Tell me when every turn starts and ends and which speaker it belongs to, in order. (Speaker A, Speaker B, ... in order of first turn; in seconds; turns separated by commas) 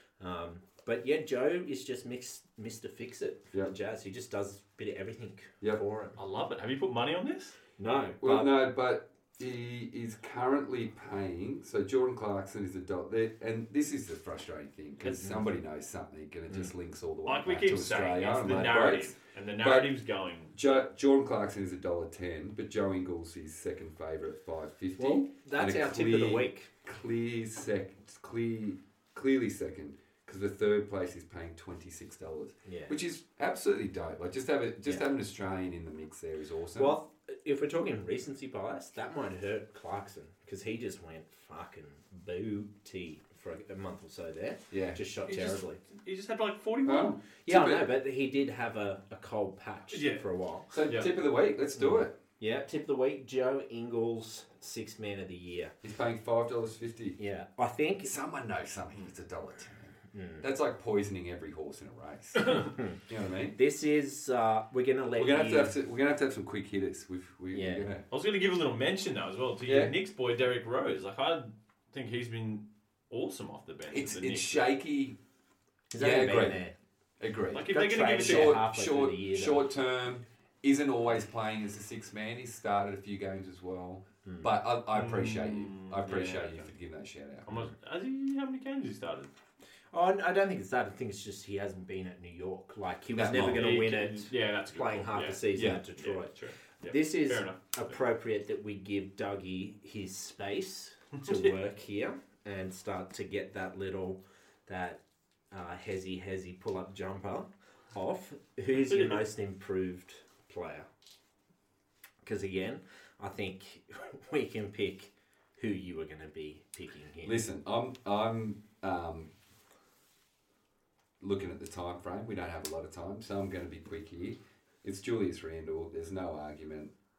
Speaker A: 0.2-6.2, Speaker B: 6.2-7.6, Speaker A: 7.8-8.5, Speaker C: 8.2-19.9, Speaker A: 15.1-15.4, Speaker B: 17.3-20.7, Speaker C: 20.5-37.0, Speaker A: 25.0-26.7, Speaker A: 32.6-33.0, Speaker A: 36.8-45.8, Speaker C: 44.7-45.0, Speaker B: 45.3-47.2, Speaker C: 46.8-47.9, Speaker A: 47.5-50.7, Speaker B: 49.9-50.3, Speaker C: 50.7-52.2, Speaker B: 50.8-51.1, Speaker A: 51.8-55.8, Speaker C: 55.8-57.2, Speaker A: 57.2-58.1, Speaker C: 58.0-63.6, Speaker A: 60.1-60.5, Speaker A: 62.6-63.0, Speaker A: 63.5-65.8, Speaker C: 65.2-68.0, Speaker A: 67.5-67.9, Speaker B: 68.1-74.7, Speaker C: 69.7-70.0, Speaker C: 73.9-75.2, Speaker A: 75.9-76.8, Speaker C: 76.0-76.6, Speaker C: 77.2-87.7, Speaker B: 77.5-78.6, Speaker A: 77.7-79.7, Speaker A: 84.2-84.5, Speaker B: 84.9-86.7, Speaker B: 87.5-89.3, Speaker A: 89.9-110.9, Speaker C: 93.1-93.8, Speaker B: 93.3-98.0, Speaker C: 95.5-95.8, Speaker B: 108.9-109.2, Speaker A: 112.2-117.4, Speaker C: 117.2-119.3, Speaker C: 121.2-126.9